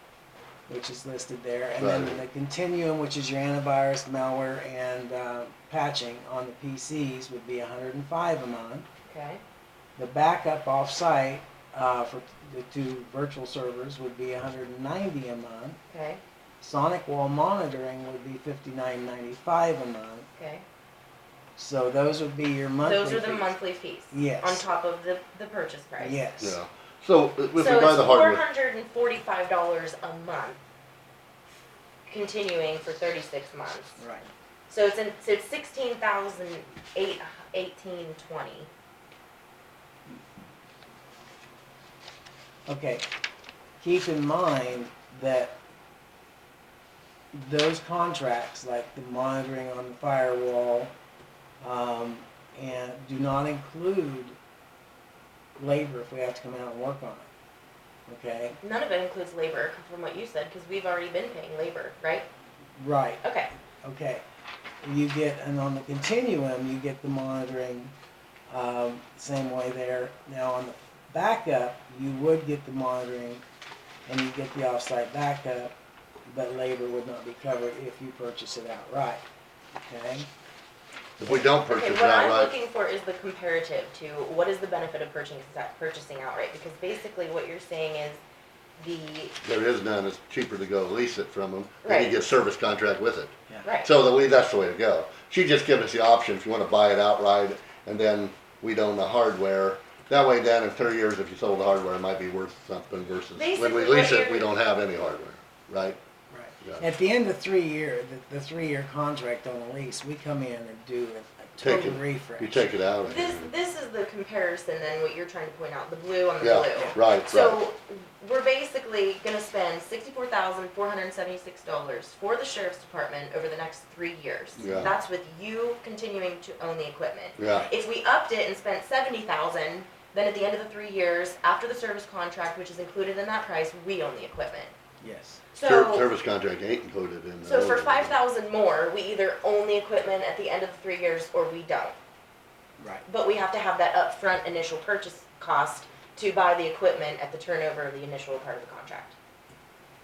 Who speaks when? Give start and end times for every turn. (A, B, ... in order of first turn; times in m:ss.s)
0:00.7-0:08.9 A
0:01.8-0:02.2 B
0:09.1-0:09.4 C
0:10.0-0:15.8 A
0:15.9-0:16.2 C
0:16.6-0:20.3 A
0:20.4-0:20.6 C
0:21.6-0:23.5 A
0:22.8-0:26.2 C
0:24.1-0:24.6 A
0:26.0-0:26.6 A
0:26.4-0:28.4 B
0:27.6-0:30.6 C
0:32.1-0:34.0 C
0:34.0-0:34.3 A
0:34.7-0:38.7 C
0:42.7-0:43.0 A
0:43.8-0:45.6 A
0:47.3-0:50.9 A
0:51.6-0:54.4 A
0:55.6-0:57.3 A
0:58.1-0:58.6 A
0:58.6-1:02.3 C
1:02.8-1:03.2 A
1:03.2-1:03.5 C
1:03.8-1:04.2 A
1:04.8-1:07.9 A
1:08.5-1:13.4 A
1:14.1-1:15.7 A
1:16.3-1:19.2 A
1:19.8-1:20.3 A
1:21.2-1:22.5 B
1:21.6-1:28.2 C
1:28.8-1:29.3 C
1:29.4-1:46.0 B
1:31.8-1:32.2 C
1:33.6-1:33.9 C
1:43.3-1:44.5 C
1:46.3-1:52.7 A
1:51.6-1:53.5 B
1:53.0-2:14.7 C
1:56.4-1:57.6 B
1:56.8-1:57.0 A
2:04.6-2:04.9 A
2:04.6-2:04.9 B
2:07.4-2:07.7 B
2:15.0-2:15.4 A
2:15.5-2:16.1 C
2:15.6-2:18.1 B
2:17.4-2:22.0 C
2:22.8-2:23.0 A
2:23.1-2:29.2 C